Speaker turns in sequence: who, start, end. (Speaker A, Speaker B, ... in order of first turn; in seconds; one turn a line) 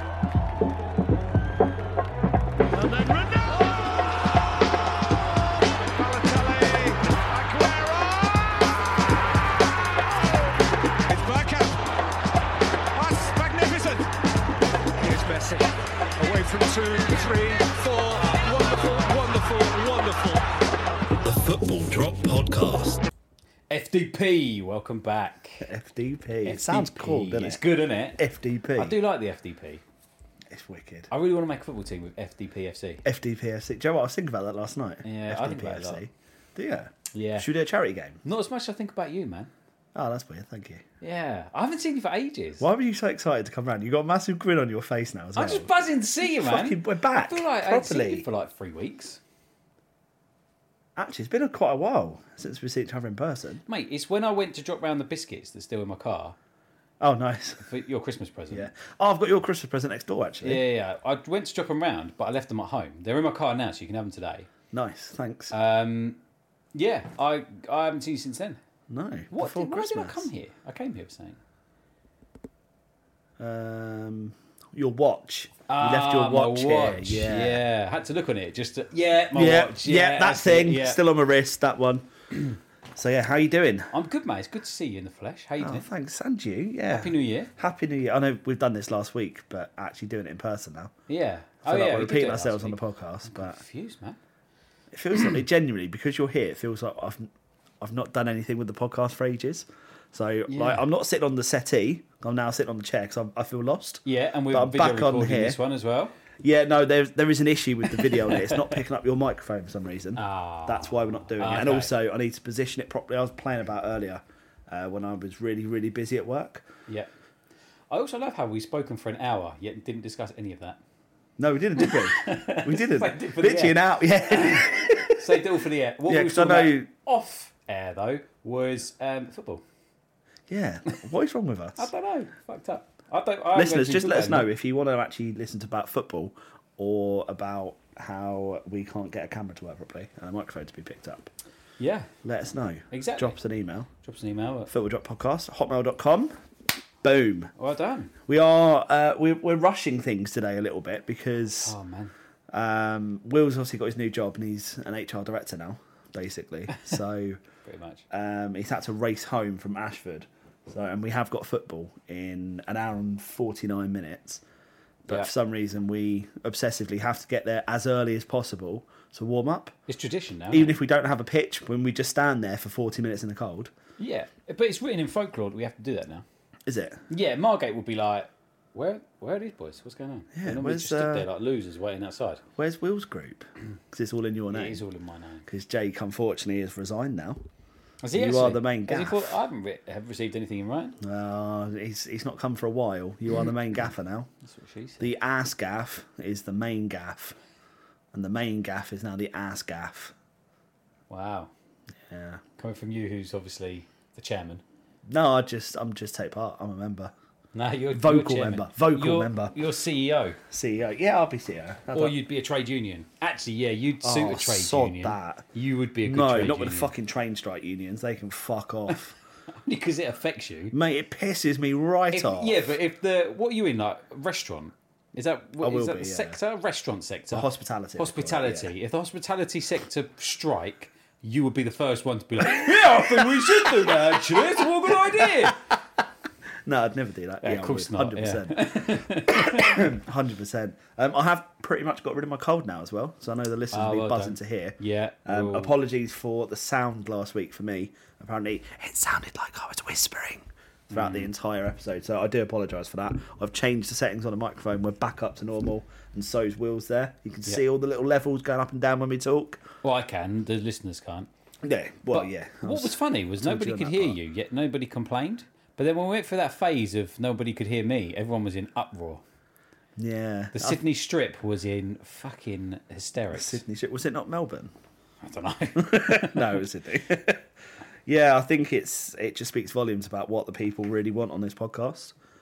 Speaker A: 2.7-9.3
Speaker A: 10.0-11.9
Speaker A: 12.9-14.1
Speaker A: 15.0-20.4
Speaker B: 21.2-23.1
Speaker C: 23.7-25.7
Speaker B: 25.6-27.6
Speaker C: 26.4-28.2
Speaker B: 28.2-29.0
Speaker C: 28.8-29.8
Speaker B: 30.5-31.1
Speaker C: 31.1-33.0
Speaker B: 33.0-38.2
Speaker C: 35.0-36.0
Speaker C: 37.1-37.5
Speaker C: 38.2-39.5
Speaker B: 40.0-40.8
Speaker C: 41.0-42.6
Speaker B: 42.6-48.2
Speaker C: 45.4-49.2
Speaker B: 51.0-53.6
Speaker C: 53.7-56.4
Speaker B: 57.0-57.7
Speaker C: 57.6-58.7
Speaker B: 58.5-60.6
Speaker C: 60.4-64.5
Speaker B: 64.7-65.5
Speaker C: 65.5-66.2
Speaker C: 66.7-68.6
Speaker B: 68.9-70.3
Speaker C: 69.3-71.4
Speaker B: 73.4-77.6
Speaker C: 75.7-81.0
Speaker B: 79.3-82.1
Speaker B: 83.0-83.9
Speaker C: 83.9-85.9
Speaker B: 85.6-90.9
Speaker C: 86.9-87.5
Speaker C: 91.1-94.2
Speaker B: 91.6-93.6
Speaker B: 94.9-105.6
Speaker C: 100.5-100.8
Speaker C: 104.0-106.2
Speaker B: 106.4-116.7
Speaker C: 108.2-108.6
Speaker C: 110.2-111.9
Speaker C: 117.9-120.8
Speaker B: 121.4-125.4
Speaker C: 121.8-129.6
Speaker B: 126.1-126.9
Speaker B: 130.5-131.9
Speaker C: 131.8-134.5
Speaker B: 133.5-141.3
Speaker C: 141.8-142.1
Speaker B: 142.2-143.9
Speaker C: 142.9-143.3
Speaker C: 144.0-144.7
Speaker B: 144.7-146.3
Speaker B: 147.0-147.5
Speaker C: 147.6-148.1
Speaker B: 148.3-151.8
Speaker C: 151.6-152.1
Speaker B: 152.5-157.4
Speaker C: 157.7-158.0
Speaker B: 158.1-164.4
Speaker B: 165.1-169.8
Speaker C: 169.9-170.7
Speaker B: 170.5-173.7
Speaker C: 174.0-176.2
Speaker B: 176.7-177.0
Speaker C: 177.1-182.4
Speaker B: 180.3-181.3
Speaker B: 182.6-184.8
Speaker C: 184.5-185.5
Speaker B: 185.5-187.4
Speaker C: 188.0-191.0
Speaker B: 188.1-189.4
Speaker B: 191.0-194.3
Speaker C: 194.4-195.1
Speaker B: 195.0-197.4
Speaker B: 198.1-200.2
Speaker C: 201.1-201.5
Speaker B: 202.1-202.4
Speaker C: 202.6-204.6
Speaker B: 205.1-207.1
Speaker C: 207.5-210.4
Speaker B: 207.9-209.6
Speaker B: 210.5-212.2
Speaker C: 211.9-216.9
Speaker B: 214.0-215.4
Speaker B: 216.0-219.2
Speaker C: 219.5-220.8
Speaker B: 220.7-222.7
Speaker C: 222.1-235.7
Speaker B: 225.6-226.4
Speaker B: 227.3-228.7
Speaker B: 232.4-235.7
Speaker B: 236.7-259.6
Speaker C: 237.4-239.9
Speaker C: 243.7-245.7
Speaker C: 250.9-251.3
Speaker C: 259.8-261.3
Speaker B: 261.6-264.2
Speaker C: 262.1-269.2
Speaker B: 270.0-270.8
Speaker C: 270.5-273.6
Speaker B: 273.3-274.7
Speaker C: 275.2-276.6
Speaker B: 275.8-277.4
Speaker B: 278.1-282.1